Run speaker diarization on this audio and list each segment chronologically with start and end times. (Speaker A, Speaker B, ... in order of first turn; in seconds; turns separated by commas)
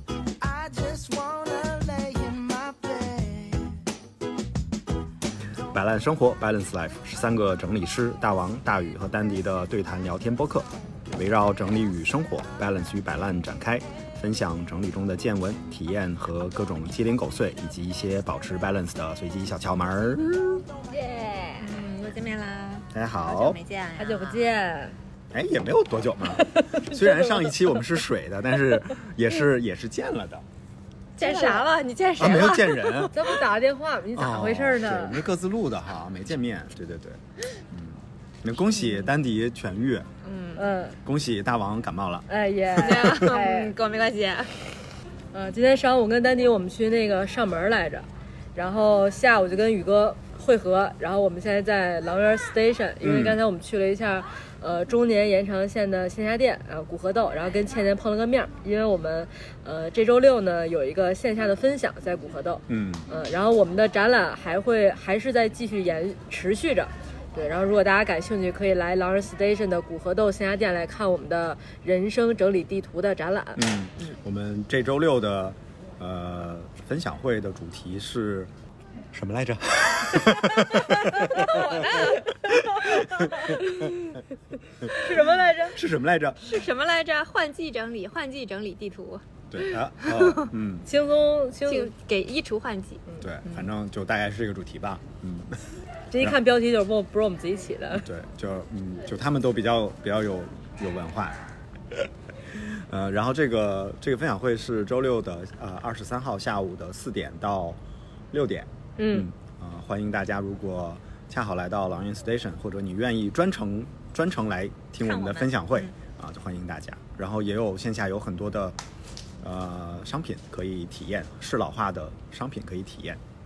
Speaker A: 0.4-3.8, Speaker B: 5.7-20.2, Speaker C: 20.5-24.4, Speaker B: 22.9-23.6, Speaker D: 24.0-24.9, Speaker B: 25.3-30.4, Speaker D: 26.4-27.7, Speaker C: 31.2-33.3, Speaker D: 31.2-31.7, Speaker B: 32.2-33.1, Speaker D: 33.1-35.2, Speaker B: 34.1-40.1, Speaker C: 40.2-40.7, Speaker D: 40.6-41.0, Speaker B: 41.0-42.3, Speaker D: 42.3-43.7, Speaker C: 42.8-44.5, Speaker D: 45.3-73.7, Speaker B: 53.0-53.4, Speaker B: 62.7-63.1, Speaker B: 73.6-78.5, Speaker B: 79.1-83.9, Speaker C: 80.6-82.4, Speaker D: 82.5-83.9, Speaker D: 84.9-85.8, Speaker B: 85.7-86.5, Speaker C: 86.4-90.5, Speaker B: 89.5-90.9, Speaker D: 90.9-91.9, Speaker C: 91.7-93.6, Speaker B: 93.2-95.6, Speaker D: 96.1-98.1, Speaker B: 98.0-107.8, Speaker B: 108.3-118.8, Speaker D: 109.0-109.3, Speaker C: 115.0-115.9, Speaker B: 119.4-123.2